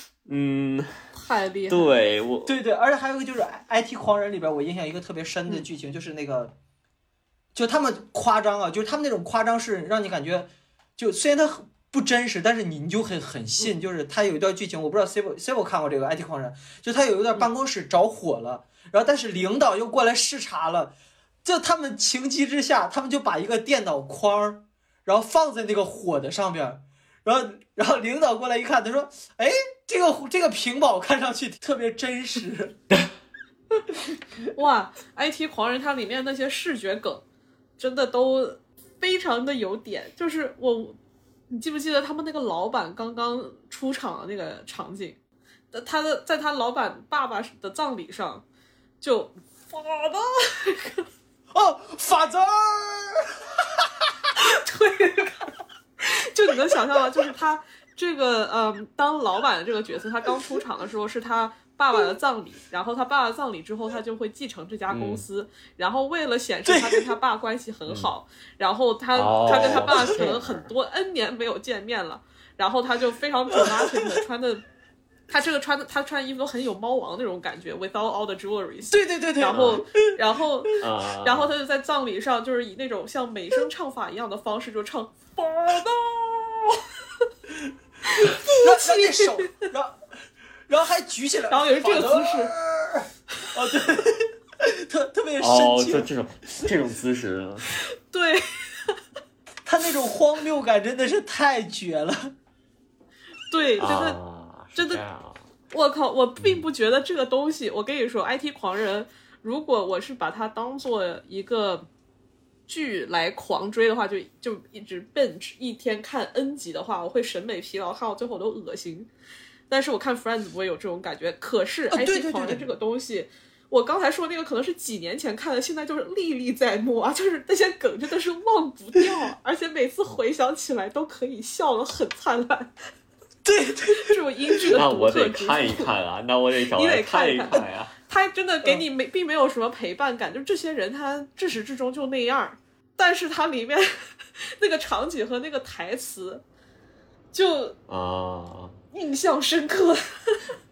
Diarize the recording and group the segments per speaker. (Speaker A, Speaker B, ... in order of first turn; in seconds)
Speaker A: 0.2-0.9, 1.7-2.5, 64.9-65.2, 69.1-70.7, 79.5-79.8, 80.8-81.5, 95.4-97.7, 103.8-105.4, 106.4-106.6, 134.7-137.9, 147.9-148.8
Speaker B: 1.1-1.9, 34.5-37.2, 37.8-41.0, 41.5-45.2, 45.7-48.4, 49.0-51.1, 54.4-55.5, 56.0-74.6, 75.3-86.8, 88.1-89.5, 91.5-92.5, 98.1-99.0, 103.5-104.2, 104.8-105.0, 105.7-111.8, 112.7-119.1, 119.7-132.7, 133.8-135.9, 136.7-146.4, 147.3-147.8, 148.9-150.5
Speaker C: 2.4-6.5, 7.5-32.8, 51.5-54.1, 66.7-67.1, 69.5-70.1, 73.5-73.9, 78.9-80.1, 88.2-90.0, 90.7-96.6, 99.7-102.3, 121.9-122.6, 133.4-134.7